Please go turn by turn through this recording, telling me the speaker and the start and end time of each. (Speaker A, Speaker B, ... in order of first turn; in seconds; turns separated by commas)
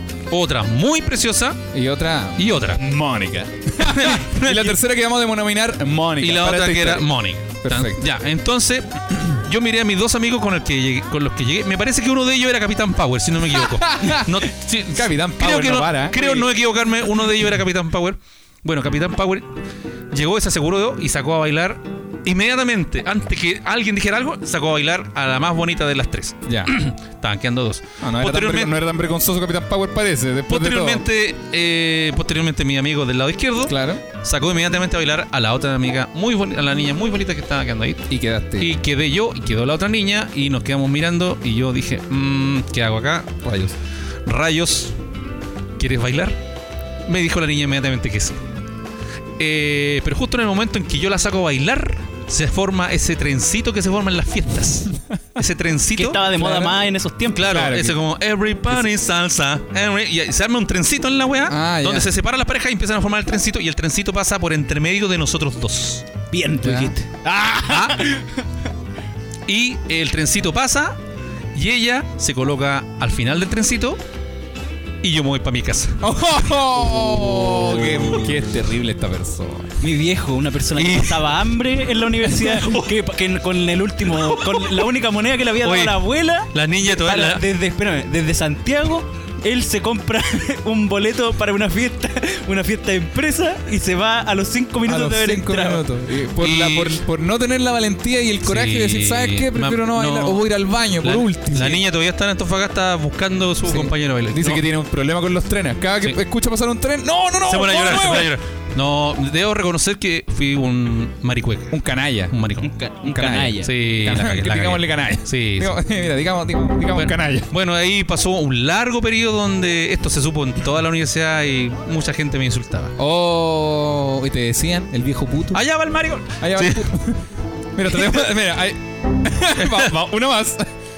Speaker A: 0.3-1.6, Speaker B: 1.7-7.1, Speaker A: 2.4-2.8, Speaker A: 3.8-4.8, Speaker A: 6.2-19.5, Speaker B: 7.6-8.1, Speaker B: 13.5-16.4, Speaker A: 20.1-28.8, Speaker B: 26.5-26.7, Speaker B: 28.0-31.1, Speaker A: 30.5-38.1, Speaker B: 33.6-34.0, Speaker B: 38.1-38.7, Speaker A: 38.6-43.4, Speaker B: 43.4-43.8, Speaker A: 44.3-44.9, Speaker A: 45.8-46.4, Speaker A: 47.1-48.4, Speaker A: 49.4-56.5, Speaker C: 56.0-57.5, Speaker B: 56.5-56.7, Speaker A: 57.3-66.1, Speaker B: 57.4-58.0, Speaker B: 61.5-62.1, Speaker C: 66.3-68.5, Speaker B: 66.6-66.9, Speaker A: 67.6-68.1, Speaker A: 69.5-71.0, Speaker A: 71.5-74.0, Speaker A: 75.0-76.0, Speaker B: 76.0-79.8, Speaker A: 77.8-78.2, Speaker C: 79.8-95.8, Speaker A: 80.8-81.3, Speaker A: 82.2-83.0, Speaker A: 84.1-84.8, Speaker A: 85.6-87.5, Speaker B: 94.8-101.8, Speaker A: 96.4-97.0, Speaker A: 98.4-100.5, Speaker A: 101.0-104.6, Speaker B: 103.6-108.3, Speaker A: 107.5-112.7, Speaker B: 111.7-112.4, Speaker C: 112.6-113.7, Speaker B: 113.0-117.5, Speaker A: 113.6-115.8, Speaker A: 116.9-122.9, Speaker B: 123.0-125.7, Speaker A: 125.5-126.9, Speaker B: 126.4-130.7, Speaker A: 128.0-128.2, Speaker A: 129.6-129.9